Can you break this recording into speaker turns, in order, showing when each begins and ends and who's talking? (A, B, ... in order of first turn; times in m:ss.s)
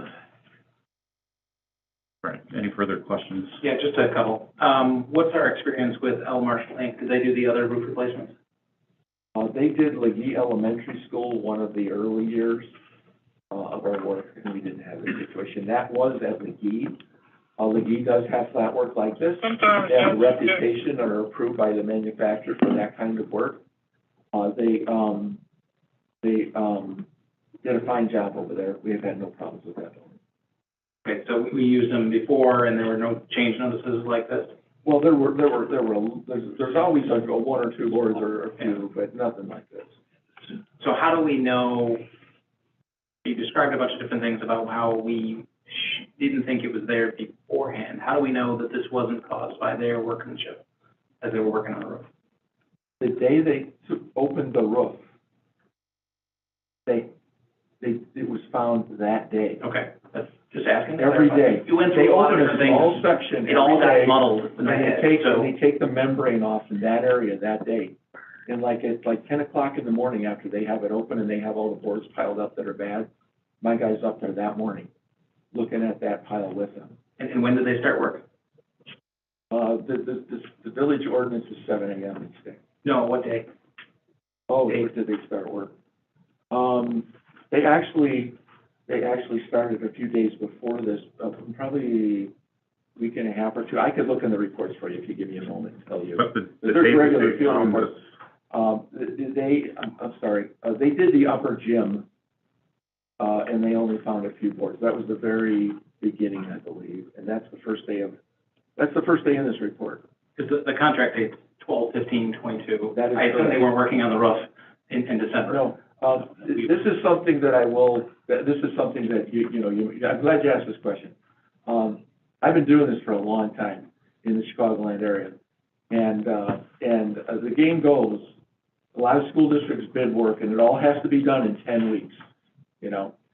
0:02.2-0:03.6 A
0:03.6-0:08.3 B
0:09.4-0:12.7 C
0:13.5-0:17.0 C
0:17.6-0:23.6 C
0:24.3-0:25.4 C
0:26.2-0:27.1 C
0:27.6-0:30.2 C
0:31.0-0:34.6 B
0:34.8-0:40.0 C
0:40.8-0:42.1 B
0:43.2-0:50.6 B
0:51.2-0:52.1 B
0:53.0-0:55.0 C
0:57.8-0:59.6 C
0:59.6-1:05.5 B
1:01.0-1:08.0 C
1:08.5-1:13.1 C
1:13.6-1:14.9 C
1:15.5-1:17.0 C
1:17.2-1:18.2 B
1:19.5-1:22.6 C
1:22.8-1:23.5 B
1:24.5-1:25.7 C
1:26.5-1:32.3 C
1:33.0-1:38.0 C
1:36.2-1:38.0 A
1:38.5-1:42.1 C
1:43.2-1:48.2 C
1:48.8-1:50.0 C
1:50.4-1:55.7 B
1:52.9-1:53.6 C
1:55.5-2:01.1 C
2:01.7-2:05.4 C
2:05.9-2:08.4 C
2:08.9-2:12.2 C
2:12.8-2:13.2 C